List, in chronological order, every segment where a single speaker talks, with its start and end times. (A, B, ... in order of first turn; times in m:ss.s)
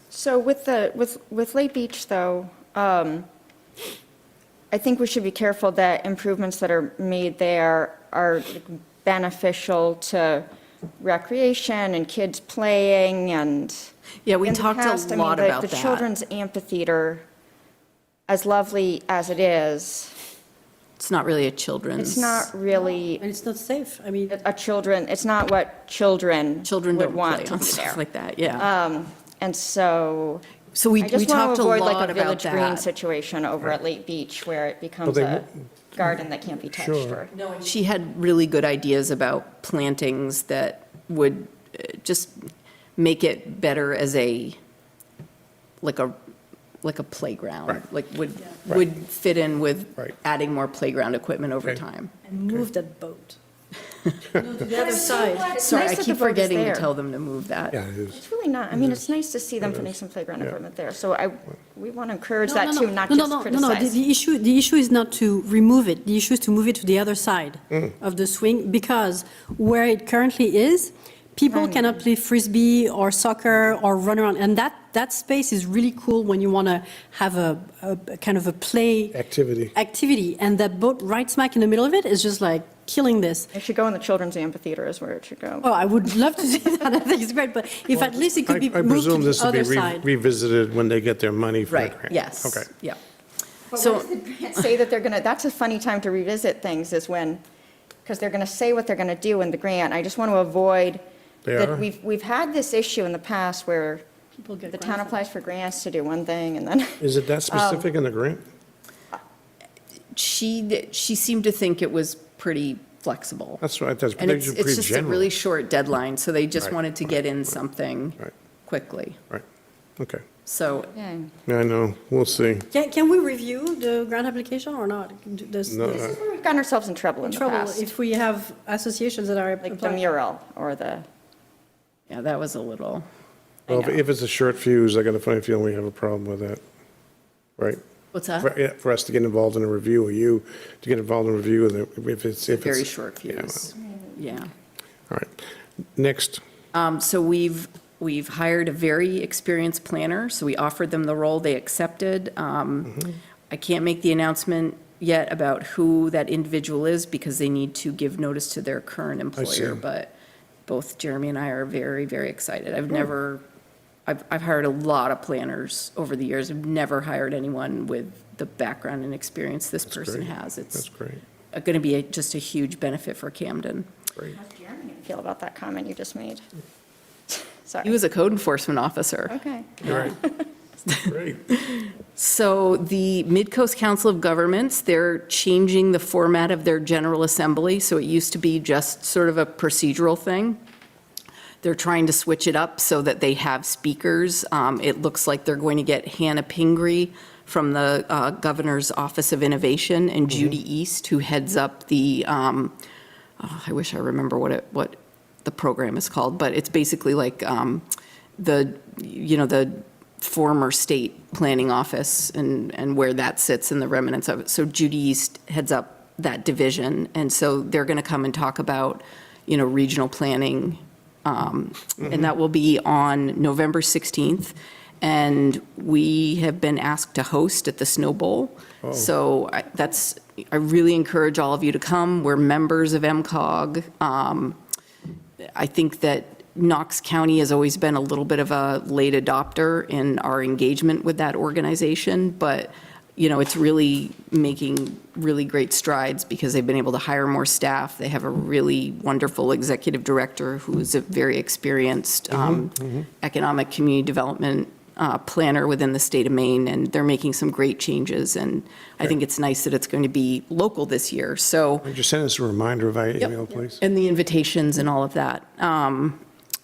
0:00.1-0:03.3 A
0:04.7-0:10.5 A
0:11.0-0:13.9 A
0:14.3-0:16.1 B
0:14.4-0:17.2 A
0:18.3-0:20.2 A
0:21.0-0:22.5 B
0:22.0-0:23.2 A
0:22.8-0:24.3 C
0:24.3-0:28.0 A
0:26.6-0:28.7 B
0:28.6-0:30.4 A
0:30.7-0:32.9 B
0:31.0-0:37.3 A
0:35.1-0:36.2 D
0:36.7-0:37.2 D
0:37.3-0:42.4 B
0:43.0-0:44.6 B
0:45.8-0:46.2 B
0:46.8-0:52.1 B
0:52.3-0:53.4 C
0:54.4-0:55.6 C
0:54.7-0:56.9 A
0:55.5-0:57.8 B
0:57.7-0:58.2 D
0:58.1-1:04.0 A
0:58.7-0:59.0 D
0:59.6-1:00.6 D
1:02.4-1:19.2 C
1:11.5-1:12.0 A
1:19.1-1:19.7 D
1:19.8-1:23.5 C
1:23.5-1:25.7 A
1:25.6-1:30.0 C
1:26.4-1:26.8 A
1:27.9-1:32.7 D
1:31.7-1:33.0 B
1:33.7-1:37.4 A
1:33.7-1:34.1 B
1:38.0-1:41.0 A
1:41.4-1:41.8 D
1:41.6-1:44.0 A
1:44.4-1:45.2 C
1:44.7-1:47.9 A
1:47.0-1:48.4 D
1:50.1-1:53.6 B
1:53.6-1:55.3 D
1:54.2-1:59.2 B
2:00.5-2:00.9 B
2:00.8-2:01.3 A
2:01.5-2:02.7 D
2:02.7-2:06.1 C
2:05.7-2:06.2 D
2:05.9-2:07.9 A
2:07.2-2:10.0 C
2:09.6-2:11.0 A
2:12.1-2:13.1 B
2:13.7-2:14.0 B
2:13.7-2:16.6 D
2:18.1-2:18.5 B
2:18.4-2:23.7 D
2:22.6-2:24.5 B
2:23.8-2:24.2 A
2:25.1-2:26.4 D
2:26.7-2:40.1 B
2:39.4-2:39.8 D
2:40.7-2:43.4 B
2:44.1-2:50.9 B
2:49.9-2:51.2 D
2:51.5-2:53.9 B
2:54.4-2:56.4 A
2:57.3-2:57.9 A
2:57.8-3:00.1 B
2:59.3-3:00.5 A
2:59.8-3:00.2 D
3:00.9-3:10.6 B
3:01.0-3:01.4 D
3:11.6-3:22.8 B
3:20.3-3:20.6 D
3:23.4-3:27.9 B
3:28.4-3:54.6 B
3:48.8-3:49.1 D
3:55.6-4:21.9 B
4:12.3-4:13.0 D
4:21.8-4:23.8 D
4:23.2-4:26.2 B